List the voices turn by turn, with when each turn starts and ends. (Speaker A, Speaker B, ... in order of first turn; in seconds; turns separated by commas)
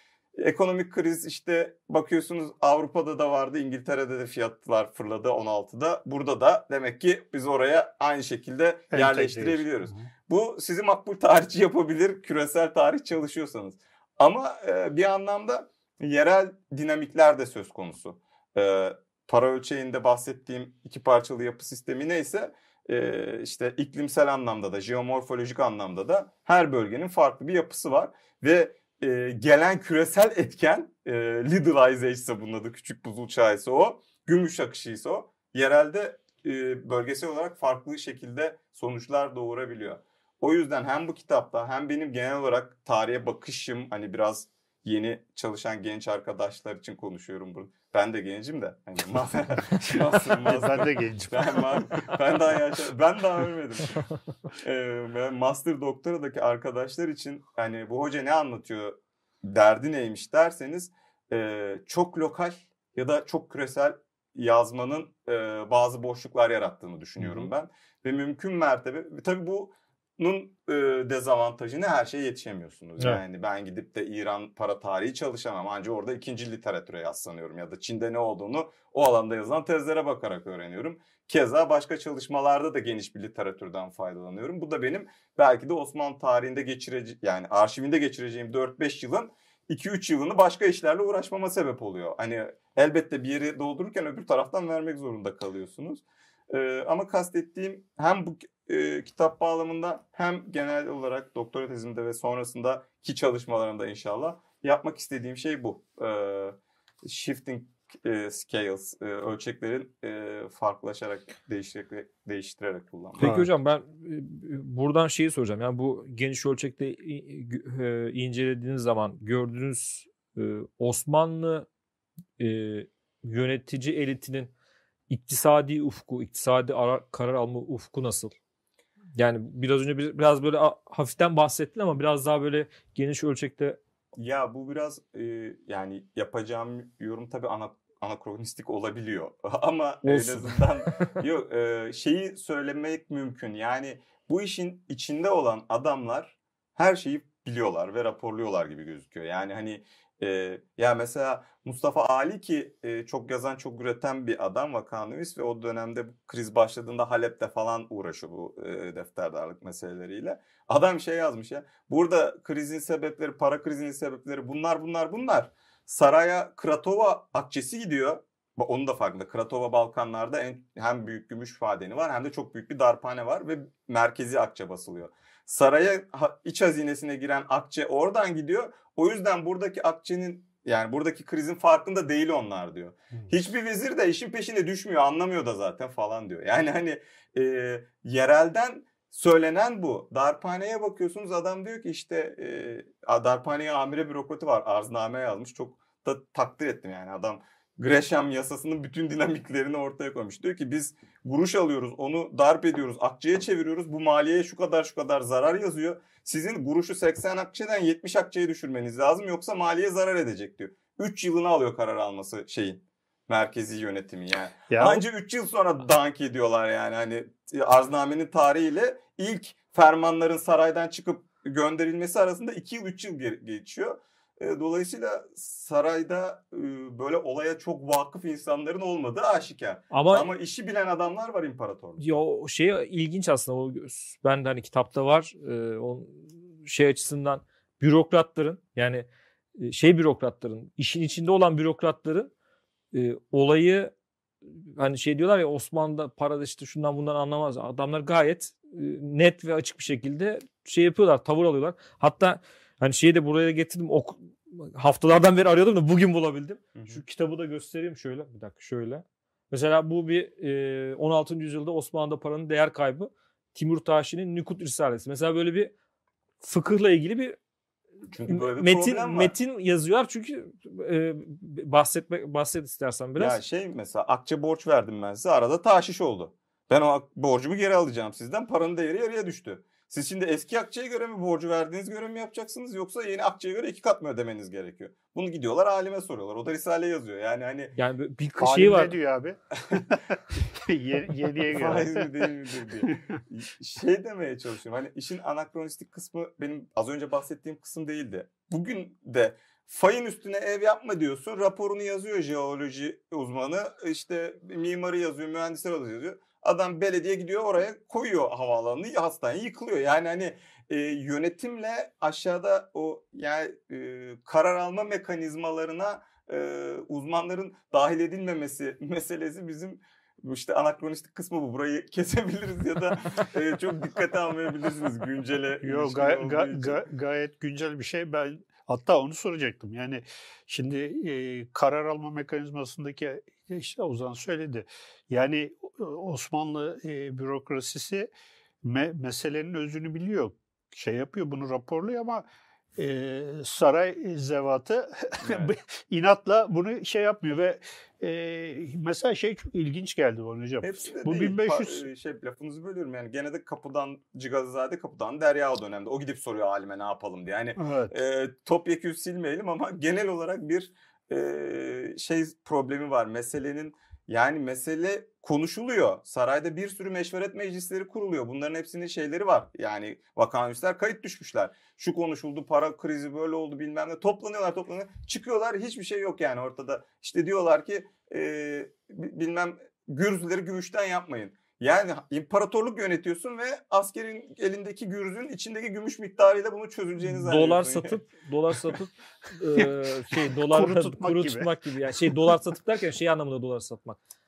Speaker A: 0.4-113.4, Speaker B: 8.9-10.1, Speaker B: 49.9-52.2, Speaker C: 113.2-121.7, Speaker B: 113.2-113.5, Speaker C: 122.4-124.5, Speaker C: 125.1-128.3, Speaker C: 129.2-133.8, Speaker A: 134.2-232.1, Speaker C: 140.1-141.2, Speaker B: 214.7-215.0, Speaker C: 229.9-230.3, Speaker C: 232.0-239.1, Speaker C: 239.6-242.3, Speaker C: 242.9-243.9, Speaker C: 244.8-265.7, Speaker A: 256.7-257.0, Speaker C: 266.4-267.4, Speaker A: 268.1-269.3, Speaker C: 268.3-273.4, Speaker A: 273.2-287.7, Speaker C: 287.8-288.9, Speaker B: 288.4-292.3, Speaker A: 291.5-326.8, Speaker B: 325.6-338.1, Speaker B: 338.6-351.9, Speaker A: 345.2-345.6, Speaker A: 350.6-388.0, Speaker B: 357.6-357.9, Speaker C: 387.0-394.0, Speaker B: 389.6-392.3